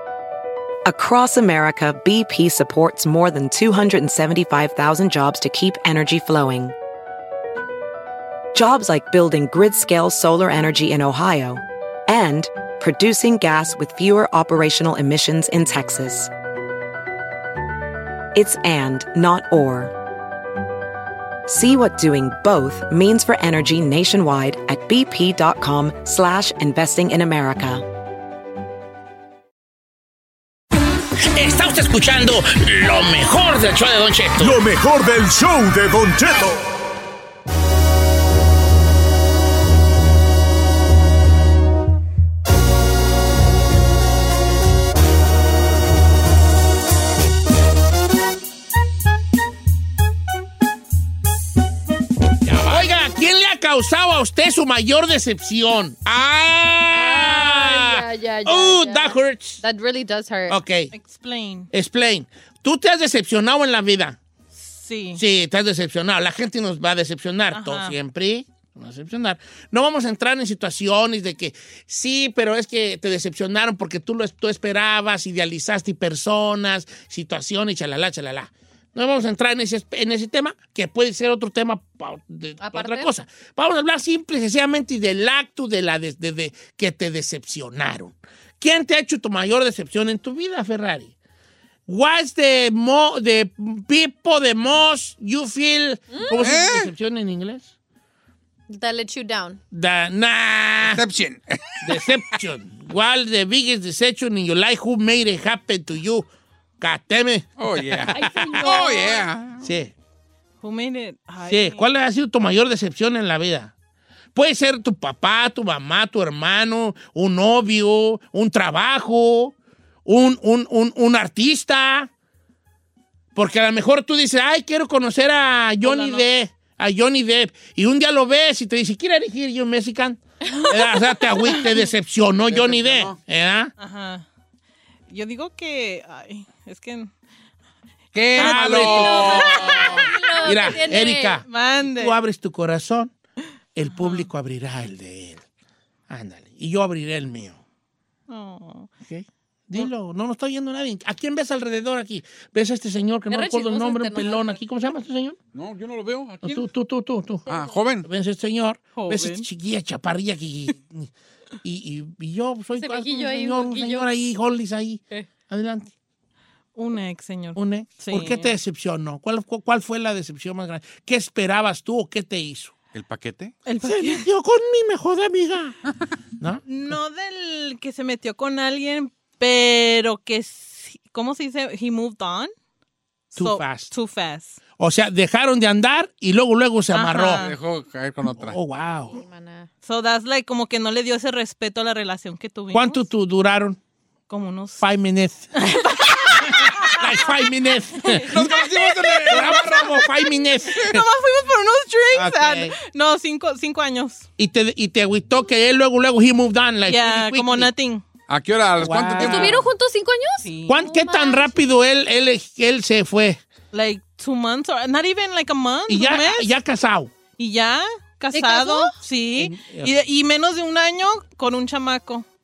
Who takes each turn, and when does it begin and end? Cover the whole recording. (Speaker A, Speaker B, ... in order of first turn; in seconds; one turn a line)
Speaker A: 0.8-6.7
Speaker A: 8.5-16.3
Speaker A: 18.3-19.9
Speaker A: 21.5-27.8
Speaker B: 31.3-34.5
Speaker C: 34.4-36.6
Speaker D: 52.5-52.9
Speaker B: 52.7-59.6
Speaker E: 56.9-60.6
Speaker B: 60.5-60.9
Speaker F: 60.9-61.7
Speaker B: 61.7-64.2
Speaker F: 64.5-65.2
Speaker B: 65.1-91.1
Speaker F: 67.5-67.9
Speaker E: 82.6-83.1
Speaker B: 91.9-97.7
Speaker E: 96.1-96.6
Speaker D: 96.4-96.9
Speaker E: 98.7-99.6
Speaker B: 99.7-101.0
Speaker D: 100.8-101.7
Speaker B: 101.8-106.3
Speaker B: 106.8-108.6
Speaker D: 107.6-109.7
Speaker E: 108.1-109.2
Speaker B: 109.6-109.9
Speaker F: 110.6-111.9
Speaker B: 111.5-113.7
Speaker B: 114.3-119.5
Speaker B: 120.0-122.1
Speaker B: 123.3-133.7
Speaker F: 125.8-126.2
Speaker D: 132.5-133.2
Speaker F: 133.8-134.2
Speaker F: 135.1-137.1
Speaker D: 138.1-140.1
Speaker F: 138.3-140.5
Speaker B: 138.3-139.4
Speaker E: 138.8-141.4
Speaker B: 140.4-143.1
Speaker F: 141.5-142.2
Speaker B: 143.8-145.4
Speaker F: 143.9-144.3
Speaker B: 146.1-147.6
Speaker F: 148.3-148.9
Speaker B: 149.1-155.4
Speaker E: 153.3-154.6
Speaker D: 155.5-156.6
Speaker B: 156.4-157.5
Speaker D: 157.5-158.1
Speaker E: 157.5-157.7
Speaker B: 158.0-161.1
Speaker F: 158.9-159.4
Speaker B: 161.6-165.9
Speaker E: 162.8-164.1
Speaker F: 166.8-168.5
Speaker B: 167.6-172.7
Speaker D: 172.9-173.5
Speaker F: 173.7-174.2
Speaker B: 173.8-175.8
Speaker B: 176.4-177.0
Speaker F: 176.7-182.5
Speaker F: 183.3-184.6
Speaker B: 183.3-183.9
Speaker B: 184.8-187.5
Speaker F: 186.9-187.6
Speaker D: 187.3-188.6
Speaker B: 188.4-189.2
Speaker E: 189.1-189.7
Speaker F: 189.8-193.0
Speaker B: 192.7-193.8
Speaker F: 194.3-194.8
Speaker B: 194.8-195.5
Speaker F: 195.6-197.1
Speaker B: 196.4-198.4
Speaker F: 198.1-204.3
Speaker D: 198.2-200.0
Speaker B: 199.3-201.0
Speaker B: 202.1-202.8
Speaker B: 204.4-207.7
Speaker F: 206.9-208.0
Speaker D: 208.3-209.7
Speaker B: 208.8-209.6
Speaker E: 209.2-211.6
Speaker F: 210.4-210.8
Speaker B: 210.7-213.4
Speaker F: 213.7-216.5
Speaker B: 215.9-217.1
Speaker F: 217.4-222.2
Speaker E: 218.3-218.9
Speaker B: 219.3-220.0